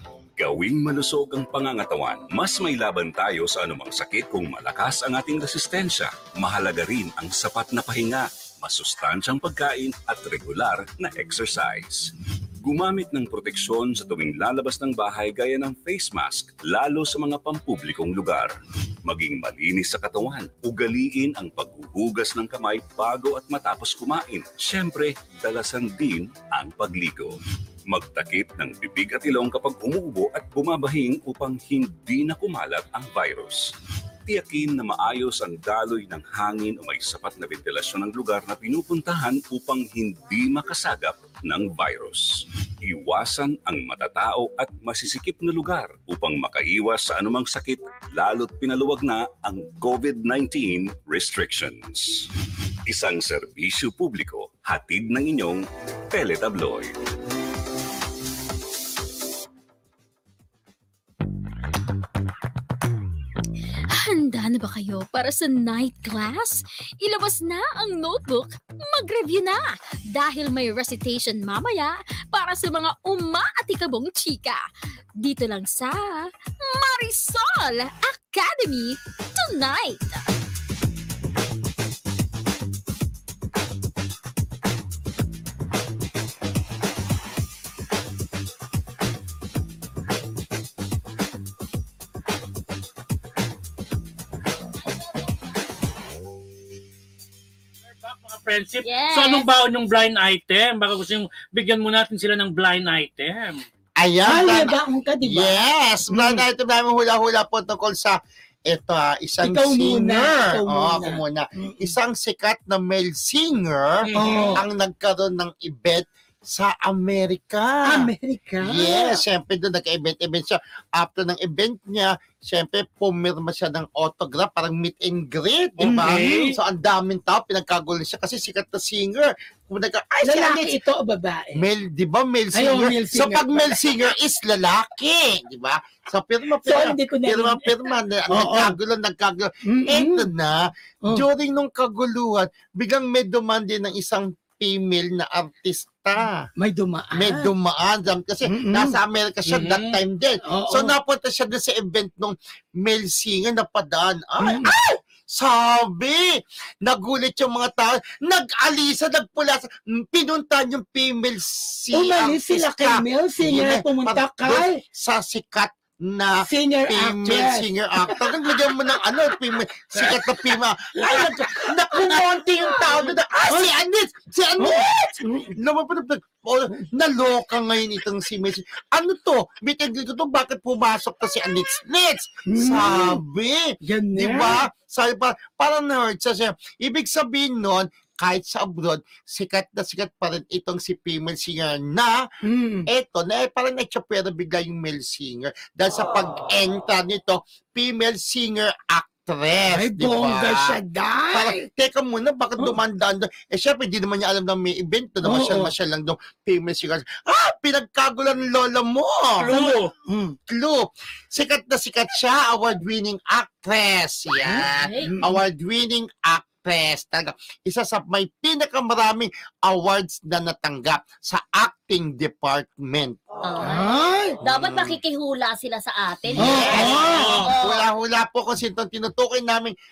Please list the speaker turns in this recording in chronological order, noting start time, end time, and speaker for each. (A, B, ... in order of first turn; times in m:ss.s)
0:00.4-0:33.7 A
0:34.3-0:56.9 A
1:03.9-1:14.6 B
1:15.2-1:20.2 B
1:37.9-1:43.6 C
1:38.8-1:39.4 D
1:44.0-1:58.1 E
1:44.2-1:46.4 F
1:49.4-1:51.9 F
1:54.0-1:54.6 C
1:54.2-1:54.6 F
1:57.8-1:59.2 F
1:58.6-2:10.8 E
2:05.8-2:06.4 F
2:05.8-2:06.6 C
2:10.2-2:11.6 F
2:11.5-2:26.5 E
2:12.5-2:13.8 F
2:16.6-2:17.8 F
2:18.3-2:18.8 F
2:19.7-2:20.3 F
2:26.6-2:27.5 F
2:27.1-3:12.2 E
2:28.5-2:29.0 F
2:29.5-2:30.0 C
2:30.4-2:30.9 F
2:34.4-2:34.7 F
2:41.9-2:44.8 F
2:46.4-2:48.5 F
2:51.1-2:52.1 F
2:54.6-2:55.5 F
3:02.5-3:03.2 F
3:03.8-3:04.6 F
3:12.4-3:12.9 F
3:12.9-3:20.8 E
3:19.7-3:21.6 F
3:21.3-3:29.6 E
3:25.2-3:25.7 F
3:29.4-3:29.9 C
3:29.5-3:30.4 F
3:30.5-3:43.2 E
3:34.4-3:35.4 F
3:34.7-3:35.1 D
3:43.4-3:47.8 D
3:43.6-3:44.4 F
3:44.4-3:44.9 E
3:46.3-3:49.7 E
3:46.4-3:47.3 F
3:46.7-3:47.5 C